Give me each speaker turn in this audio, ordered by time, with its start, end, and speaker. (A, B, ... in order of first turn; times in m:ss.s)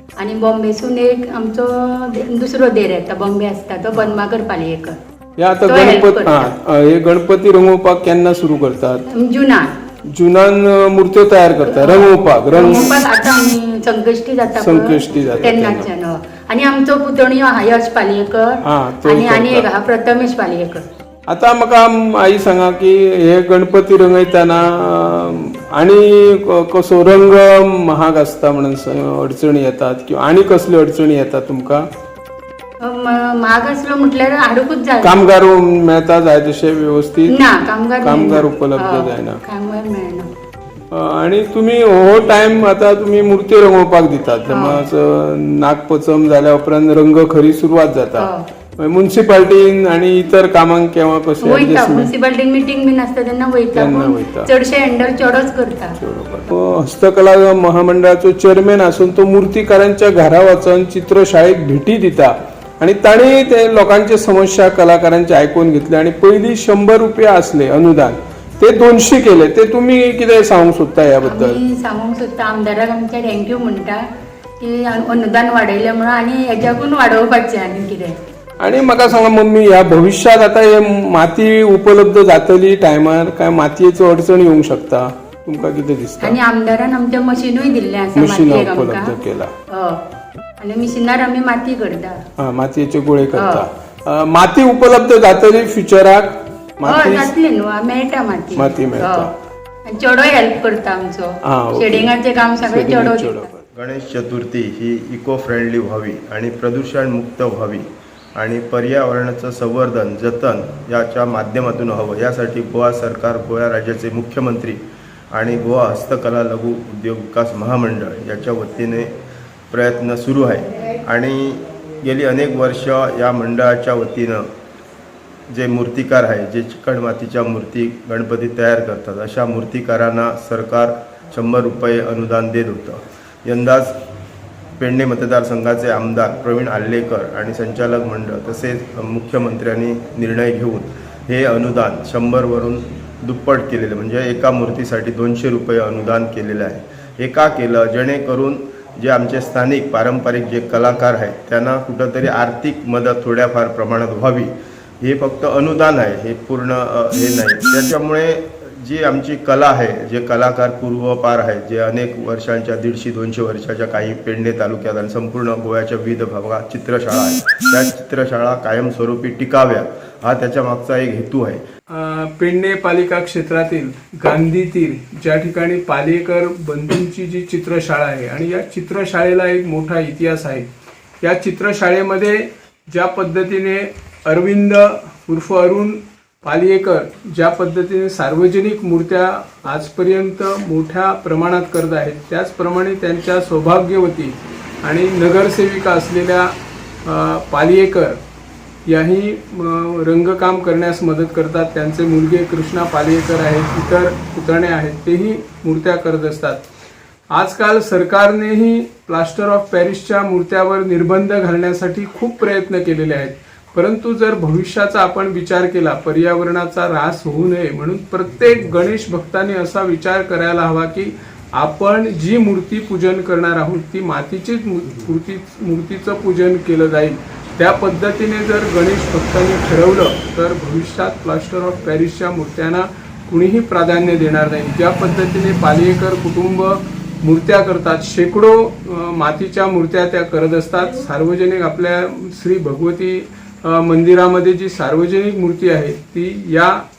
0:00.2-0:05.0 A
0:05.4-0:09.1 B
0:05.7-0:06.5 A
0:09.1-0:09.7 A
0:10.1-0:12.9 B
0:11.7-0:20.9 A
0:14.6-0:15.9 B
0:18.6-0:19.7 B
0:21.3-0:31.8 B
0:32.8-0:35.2 A
0:35.0-0:37.4 B
0:37.3-0:40.3 A
0:38.0-0:39.4 B
0:40.9-0:52.1 B
0:44.5-0:44.8 A
0:48.2-0:48.4 A
0:51.4-0:56.0 A
0:53.8-0:54.5 B
0:56.0-1:11.6 B
1:11.2-1:14.0 A
1:14.6-1:18.2 A
1:18.6-1:26.4 B
1:26.2-1:29.2 A
1:28.2-1:29.5 B
1:29.7-1:30.0 A
1:30.6-1:32.2 A
1:32.4-1:37.3 B
1:33.4-1:33.6 A
1:36.8-1:39.3 A
1:38.6-1:39.3 B
1:39.9-1:43.5 A
1:41.5-1:43.7 B
1:43.7-1:54.8 C
1:55.3-1:59.2 C
1:59.7-2:04.5 C
2:05.5-2:14.0 C
2:14.8-2:51.6 C
2:51.9-3:00.7 B
3:01.2-3:18.2 B
3:18.9-3:26.6 B
3:27.3-4:06.8 B